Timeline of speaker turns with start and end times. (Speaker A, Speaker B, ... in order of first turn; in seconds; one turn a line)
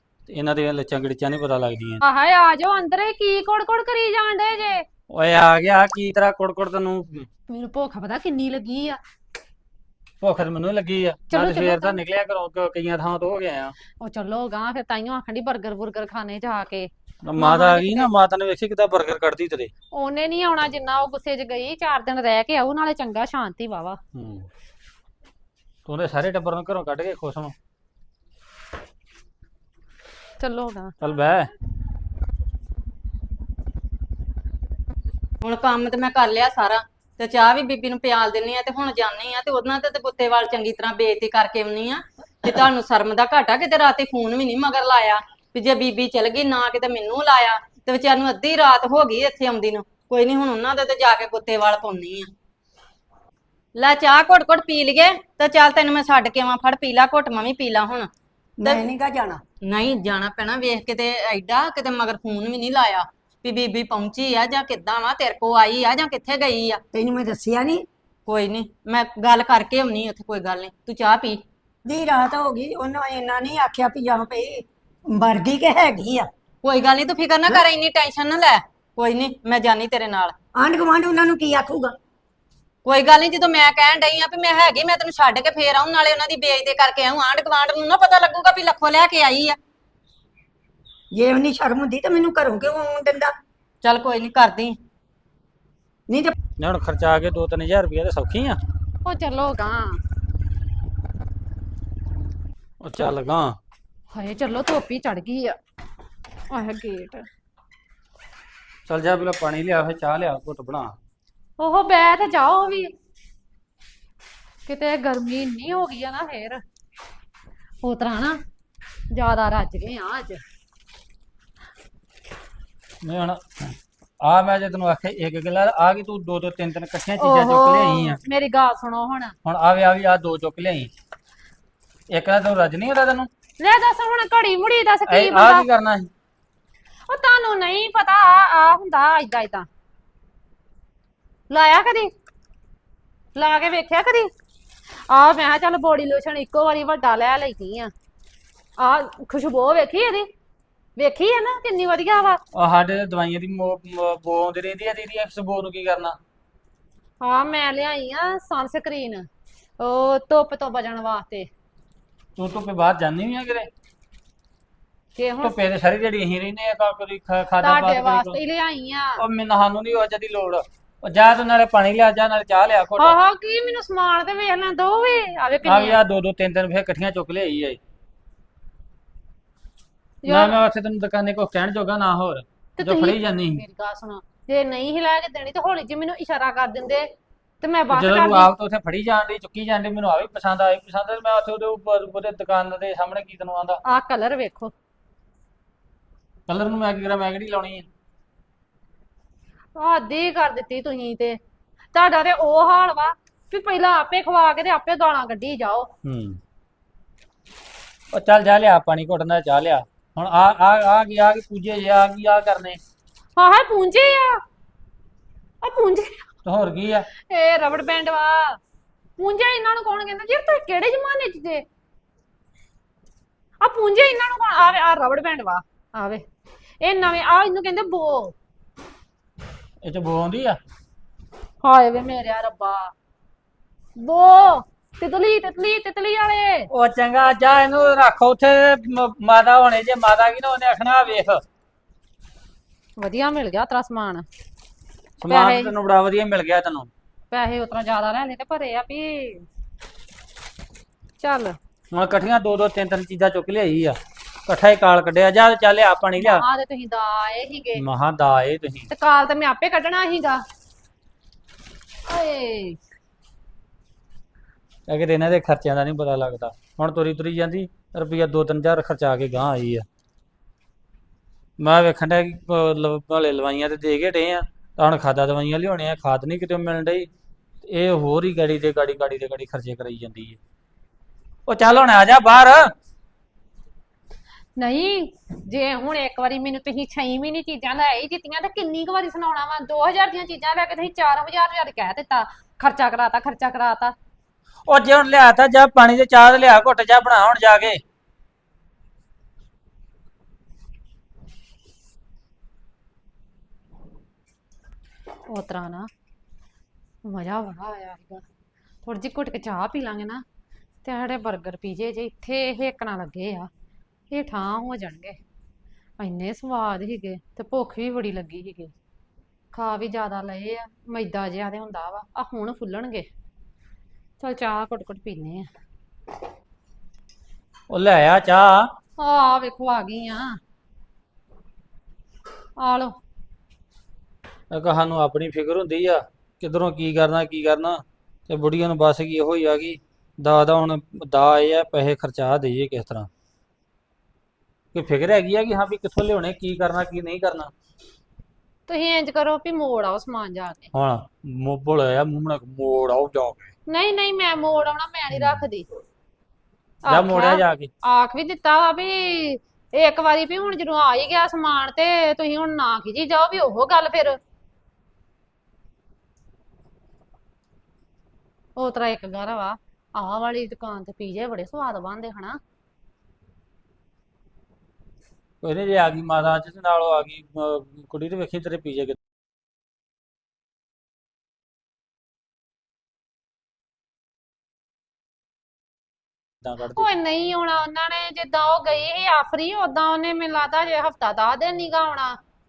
Speaker A: 0.3-2.0
Speaker B: 2.0-4.9
Speaker A: 5.1-7.3
Speaker B: 7.5-9.0
Speaker A: 10.2-13.8
Speaker B: 11.3-12.0
Speaker B: 14.0-18.1
Speaker A: 17.2-19.7
Speaker B: 19.9-24.0
Speaker A: 24.1-24.5
Speaker A: 25.9-27.5
Speaker B: 30.4-30.9
Speaker A: 31.0-31.5
Speaker C: 35.4-52.3
Speaker C: 53.8-58.1
Speaker D: 58.6-59.4
Speaker C: 59.6-66.8
Speaker D: 66.9-67.8
Speaker C: 68.3-71.4
Speaker D: 71.8-76.3
Speaker C: 76.6-80.3
Speaker D: 80.6-81.9
Speaker C: 82.8-89.6
Speaker D: 91.1-93.3
Speaker C: 93.8-94.8
Speaker D: 96.1-96.3
Speaker A: 96.6-98.6
Speaker B: 99.0-100.0
Speaker A: 102.8-103.6
Speaker B: 104.1-105.6
Speaker B: 106.5-107.3
Speaker A: 108.9-110.9
Speaker B: 111.6-112.9
Speaker B: 114.7-116.6
Speaker B: 117.8-118.4
Speaker B: 119.1-120.4
Speaker A: 123.0-128.2
Speaker B: 127.2-129.4
Speaker A: 129.4-130.9
Speaker A: 132.1-133.3
Speaker B: 133.6-135.7
Speaker A: 135.1-136.1
Speaker B: 137.1-139.7
Speaker B: 141.5-142.1
Speaker B: 143.3-144.3
Speaker B: 145.1-147.9
Speaker B: 148.8-150.3
Speaker B: 150.9-152.4
Speaker A: 152.5-156.2
Speaker B: 157.2-159.3
Speaker B: 159.8-161.5
Speaker A: 162.3-163.7
Speaker B: 165.2-165.6
Speaker A: 165.4-168.4
Speaker B: 167.6-169.2
Speaker A: 169.2-173.2
Speaker B: 173.0-176.0
Speaker A: 175.6-177.8
Speaker B: 180.2-180.6
Speaker A: 180.3-183.6
Speaker B: 182.8-187.1
Speaker B: 187.6-188.5
Speaker A: 187.9-193.8
Speaker B: 193.8-194.7
Speaker A: 196.5-197.9
Speaker B: 199.8-201.4
Speaker B: 201.9-205.9
Speaker A: 206.1-206.4
Speaker A: 208.1-212.8
Speaker B: 213.3-214.4
Speaker B: 215.6-216.3
Speaker A: 216.4-217.1
Speaker B: 217.2-218.6
Speaker B: 219.2-221.7
Speaker B: 223.6-226.2
Speaker B: 226.8-228.3
Speaker A: 229.8-230.6
Speaker B: 231.6-232.9
Speaker B: 234.0-236.7
Speaker A: 236.7-241.4
Speaker B: 243.0-244.3
Speaker A: 245.2-246.9
Speaker B: 245.3-245.7
Speaker B: 247.3-249.5
Speaker B: 251.2-251.6
Speaker A: 251.9-256.4
Speaker B: 256.2-257.8
Speaker A: 257.8-258.9
Speaker B: 258.9-260.4
Speaker B: 262.1-262.8
Speaker A: 264.9-269.8
Speaker A: 271.6-277.1
Speaker A: 277.7-280.4
Speaker A: 281.5-282.6
Speaker B: 284.6-293.9
Speaker A: 294.7-297.8
Speaker B: 305.3-305.9
Speaker B: 307.1-308.2
Speaker B: 308.8-310.2
Speaker B: 310.8-313.5
Speaker B: 314.1-315.2
Speaker B: 316.0-318.7
Speaker B: 319.5-323.1
Speaker B: 324.2-325.5
Speaker A: 327.7-328.7
Speaker B: 329.0-330.4
Speaker B: 332.6-333.0
Speaker A: 334.5-343.1
Speaker A: 344.7-347.5
Speaker B: 348.7-350.7
Speaker A: 350.7-353.5
Speaker B: 353.7-355.7
Speaker A: 355.1-355.4
Speaker A: 356.9-357.7
Speaker B: 356.9-364.2
Speaker B: 368.6-372.4
Speaker A: 375.4-379.0
Speaker A: 386.4-386.9
Speaker B: 386.8-392.2